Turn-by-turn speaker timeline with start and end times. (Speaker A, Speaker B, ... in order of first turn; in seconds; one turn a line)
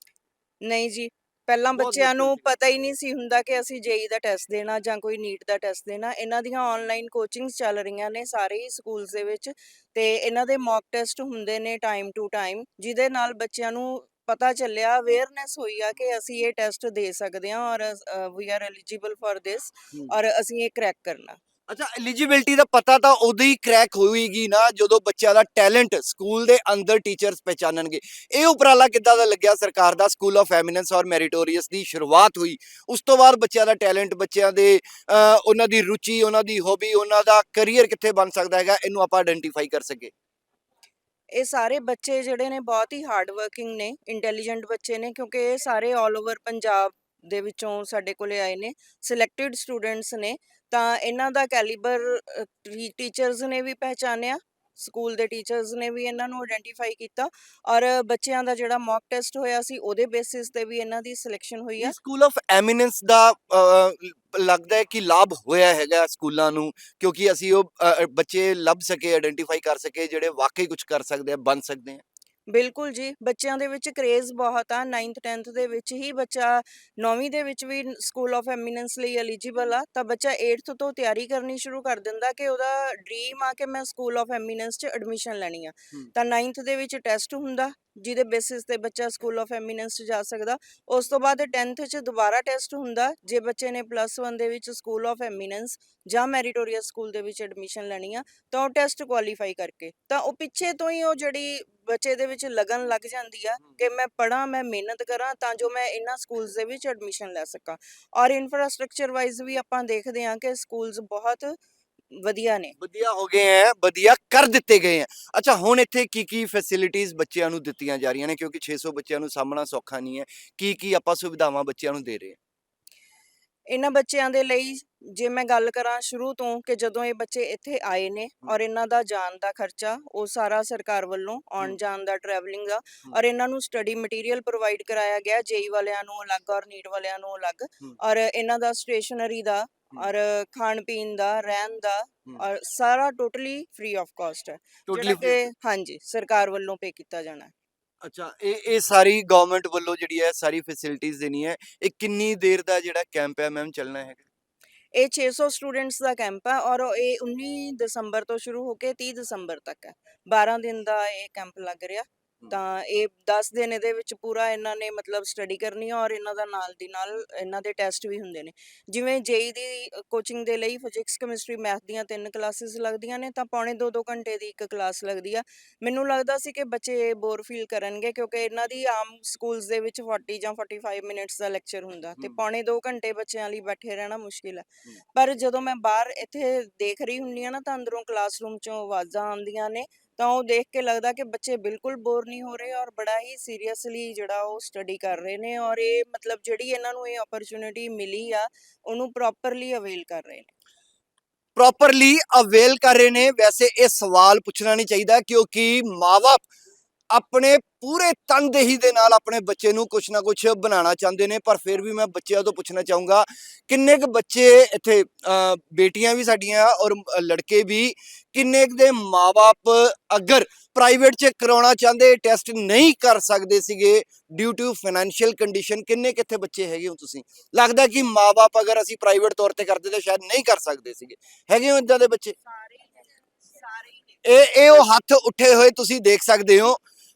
Speaker A: 0.6-21.4
Speaker B: 1.7-2.5
Speaker B: 21.7-40.1
Speaker A: 41.3-61.9
Speaker B: 61.8-72.0
Speaker A: 72.5-111.6
Speaker A: 112.2-112.7
Speaker B: 112.8-122.4
Speaker A: 123.7-147.5
Speaker B: 144.9-145.5
Speaker B: 148.0-154.2
Speaker A: 154.9-200.5
Speaker B: 201.5-206.4
Speaker B: 207.1-232.4
Speaker A: 233.6-233.9
Speaker B: 234.2-236.8